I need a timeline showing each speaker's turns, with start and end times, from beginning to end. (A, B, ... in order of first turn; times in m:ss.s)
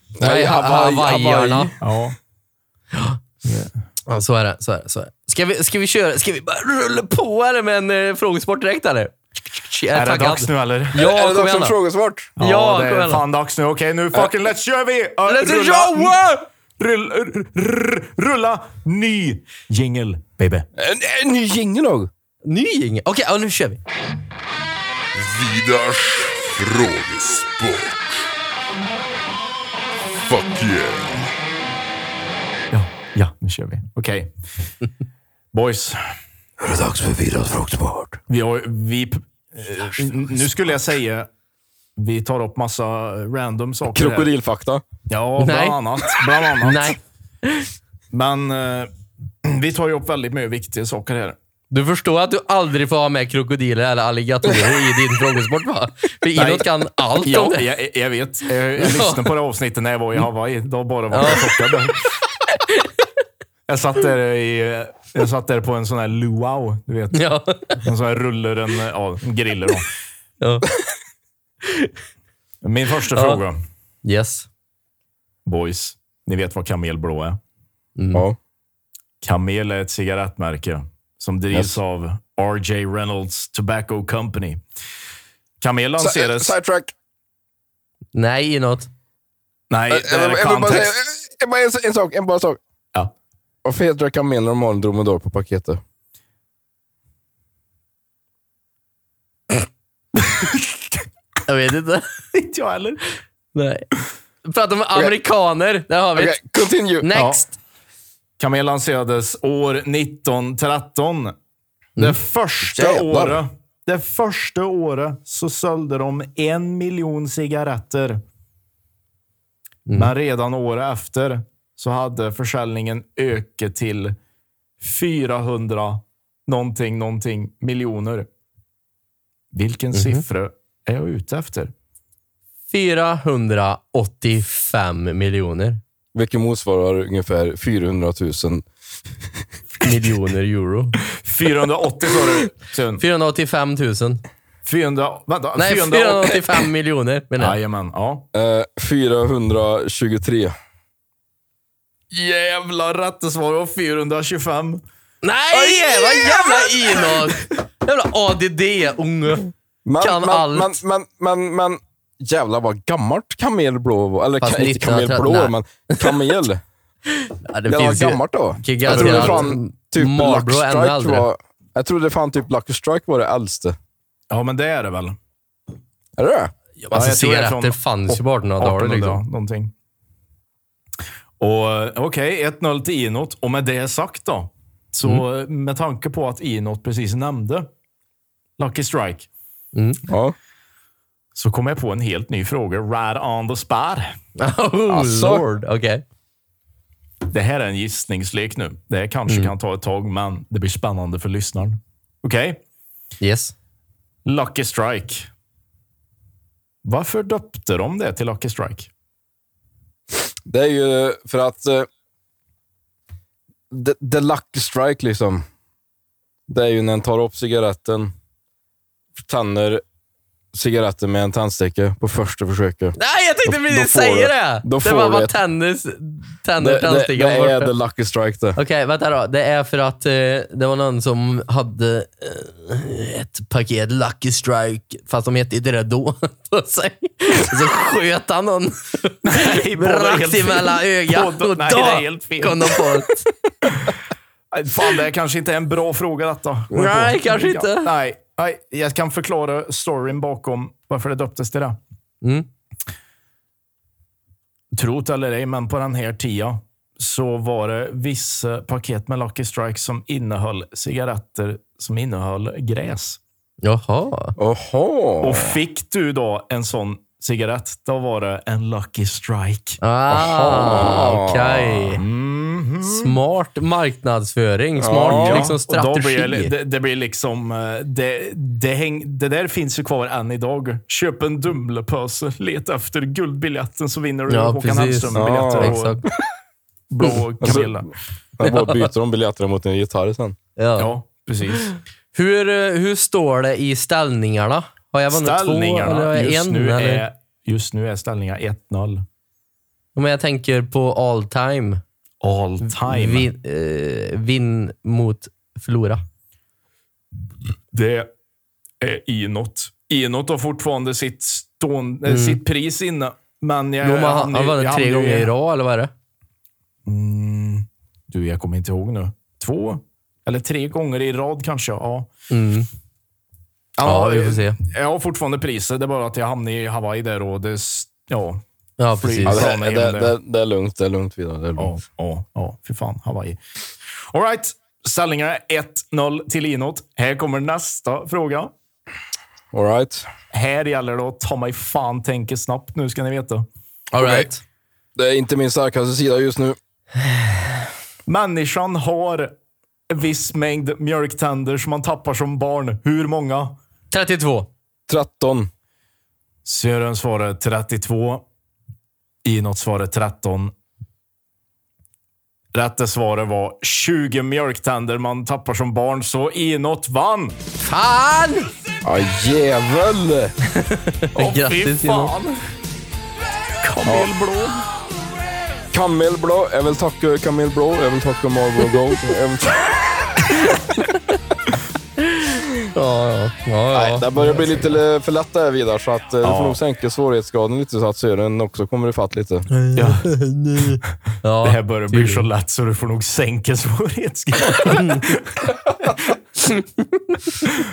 0:00.2-0:01.7 A
0:00.2-0:01.7 B
0:01.8-0:02.2 C
0:02.9-0:03.2 B
0:03.4-0:03.7 C
0:04.1-0:11.7 B
0:09.9-0:11.0 C
0:10.9-0:12.3 A
0:12.4-0:13.2 B
0:12.4-0:16.2 C
0:15.3-0:16.4 B
0:16.8-0:20.6 C
0:20.8-0:22.1 A
0:22.4-0:23.8 B
0:25.3-0:27.1 A
0:30.3-0:31.2 A
0:32.7-0:34.3 C
0:35.5-0:36.0 C
0:36.6-0:38.2 A
0:38.3-0:41.3 C
0:42.0-0:44.3 C
0:43.9-0:44.8 A
0:45.1-0:47.0 C
0:45.4-0:47.7 B
0:48.1-0:48.9 C
0:49.4-0:51.4 C
0:51.7-0:57.6 B
0:56.3-0:56.7 C
0:57.2-1:02.0 C
0:58.8-0:59.2 B
1:01.1-1:01.4 B
1:02.6-1:02.9 B
1:03.7-1:07.2 C
1:07.1-1:07.8 B
1:07.8-1:09.9 C
1:10.4-1:10.7 B
1:11.6-1:11.9 B
1:12.6-1:13.6 C
1:13.1-1:13.4 B
1:14.0-1:14.5 B
1:15.4-1:17.4 C
1:18.0-1:18.2 B
1:19.2-1:24.6 C
1:25.6-1:26.5 C
1:26.0-1:26.9 A
1:28.1-1:28.9 B
1:29.7-1:30.9 C
1:29.9-1:32.6 A
1:33.6-1:35.8 A
1:41.5-1:42.1 B
1:42.3-1:43.0 C
1:43.5-1:43.9 B
1:44.4-1:46.4 B
1:46.2-1:47.1 A
1:47.0-1:47.5 B
1:47.1-1:47.4 C
1:48.4-1:51.3 C
1:52.0-1:58.2 C
1:52.6-1:53.4 A
1:59.9-2:04.2 C
2:04.8-2:08.3 C
2:09.5-2:11.7 C
2:09.9-2:10.2 B
2:12.7-2:15.8 B
2:16.1-2:18.6 A
2:19.8-2:21.0 B
2:21.2-2:23.0 C
2:23.0-2:24.2 B
2:24.6-2:26.6 C
2:25.6-2:27.6 B
2:27.4-2:28.2 C
2:28.3-2:30.5 A
2:32.1-2:34.8 C
2:35.2-2:40.8 B
2:35.5-2:36.6 A
2:39.8-2:46.6 A
2:44.4-2:46.1 B
2:47.2-2:51.2 B
2:47.7-2:53.8 A
2:48.9-2:49.5 C
2:54.3-2:55.2 C
2:56.2-2:56.5 A
2:56.8-2:59.2 B
2:56.9-2:59.7 C
3:01.4-3:07.7 C
3:08.6-3:09.3 C
3:09.7-3:10.0 B
3:10.1-3:10.3 A
3:11.3-3:14.1 C
3:14.4-3:16.0 B
3:14.9-3:15.4 A
3:17.3-3:22.6 C
3:23.2-3:23.5 B
3:24.2-3:25.3 C
3:26.8-3:28.9 C
3:30.5-3:31.9 A
3:33.7-3:35.4 A
3:36.5-3:38.1 A
3:39.2-3:39.8 A
3:40.5-3:45.3 A
3:43.0-3:47.7 B
3:46.6-3:48.6 A
3:48.6-4:03.3 B
3:59.2-4:02.9 C
4:03.7-4:04.0 C
4:04.5-4:11.8 C
4:06.7-4:07.9 B
4:14.7-4:23.2 C
4:23.6-4:24.3 B
4:24.4-4:25.5 A
4:25.2-4:29.8 C
4:29.8-4:32.0 B
4:30.1-4:31.9 A
4:32.0-4:33.2 C
4:32.8-4:36.5 B
4:34.8-4:35.5 A
4:34.9-4:46.0 C
4:44.3-4:46.0 B
4:45.1-4:45.8 A
4:46.9-4:47.9 C
4:47.4-4:47.8 A
4:48.4-4:50.4 A
4:48.4-4:48.9 B
4:50.6-4:50.9 B
4:50.8-4:51.7 C
4:52.1-4:57.0 B
4:55.1-4:59.0 C
4:59.9-5:01.8 B
5:02.2-5:03.3 C
5:02.6-5:06.0 B
5:07.7-5:08.1 C
5:08.8-5:15.3 C
5:12.1-5:12.4 B
5:13.8-5:15.9 B
5:16.8-5:22.1 C
5:22.3-5:22.7 B
5:23.8-5:28.4 C
5:23.8-5:24.6 B
5:28.8-5:29.4 B
5:29.0-5:30.1 C
5:29.2-5:31.7 A
5:31.6-5:33.4 C
5:34.1-5:38.5 C
5:39.5-5:40.1 A
5:40.3-5:43.4 C
5:43.9-5:44.4 B
5:44.0-5:44.3 A
5:45.0-5:46.6 A
5:48.1-5:49.3 C
5:49.9-5:53.6 C
5:53.9-5:54.5 B
5:54.9-5:55.5 A
5:56.4-5:58.2 C
5:59.2-6:00.5 C
6:02.5-6:07.3 C
6:07.6-6:08.5 B
6:08.8-6:10.3 A
6:10.5-6:12.1 B
6:11.2-6:12.4 C
6:13.6-6:14.6 C
6:13.8-6:14.1 A
6:15.7-6:20.2 A
6:22.7-6:24.1 B
6:23.7-6:29.5 A
6:26.2-6:26.6 C
6:29.5-6:32.2 B
6:29.7-6:30.1 C
6:31.4-6:35.9 C
6:34.8-6:35.0 B
6:36.4-6:37.3 B